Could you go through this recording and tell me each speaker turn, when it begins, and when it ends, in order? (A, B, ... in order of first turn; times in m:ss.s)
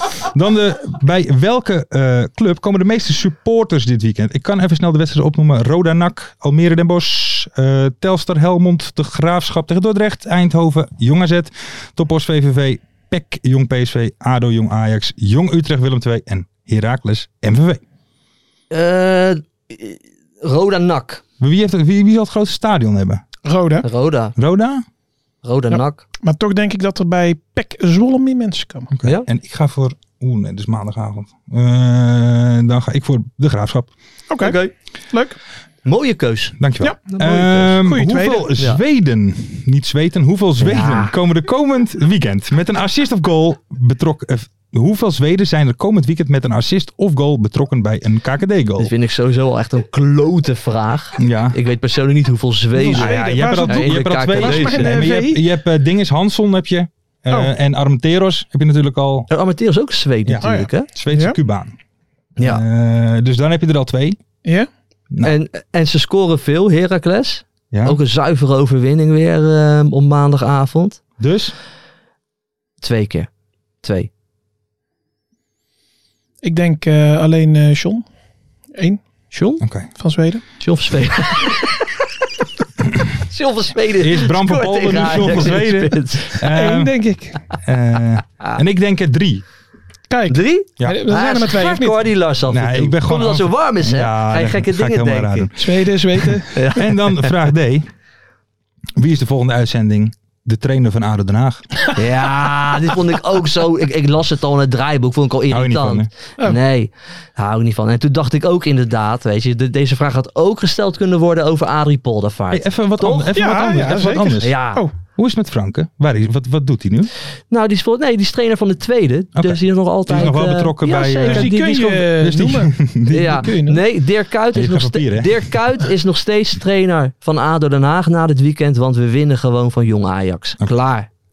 0:00.2-0:17.8 A
0:18.7-0:21.2 B
0:21.4-0:23.2 A
0:23.4-0:23.9 C
0:23.8-0:24.3 B
0:24.4-0:24.8 A
0:25.4-0:26.0 B
0:25.7-0:28.9 C
0:28.9-0:33.9 A
0:34.3-0:34.6 C
0:34.4-0:34.7 B
0:35.8-0:36.6 B
0:36.6-0:48.9 A
0:37.1-0:37.8 B
0:37.8-0:38.5 C
0:40.6-0:41.1 B
0:48.8-0:54.9 B
0:51.2-0:51.6 A
0:52.7-0:59.3 A
0:52.9-0:55.4 C
0:59.3-1:00.9 B
1:00.2-1:01.7 A
1:00.4-1:01.4 C
1:02.4-1:02.6 B
1:02.4-1:04.2 A
1:05.2-1:11.0 B
1:07.7-1:08.0 A
1:11.2-1:11.5 A
1:12.8-1:13.3 B
1:13.8-1:14.1 B
1:16.4-1:18.0 C
1:18.8-1:19.0 C
1:19.3-1:19.6 B
1:19.6-1:19.9 A
1:20.0-1:20.4 C
1:20.6-1:21.8 B
1:23.3-1:26.3 B
1:24.0-1:26.9 A
1:26.5-1:27.4 C
1:27.6-1:29.4 A
1:30.1-1:32.1 C
1:30.3-1:35.5 B
1:32.5-1:35.6 A
1:35.6-1:36.7 C
1:36.2-1:37.9 A
1:36.5-1:37.2 B
1:39.0-1:41.8 A
1:42.0-1:53.3 B
1:45.5-1:46.1 A
1:52.5-1:54.6 A
1:53.3-1:54.9 C
1:54.4-1:54.8 B
1:55.2-1:57.1 A
1:57.5-2:01.6 B
1:59.4-2:03.4 A
2:01.2-2:03.8 C
2:03.1-2:11.1 B
2:04.5-2:05.4 A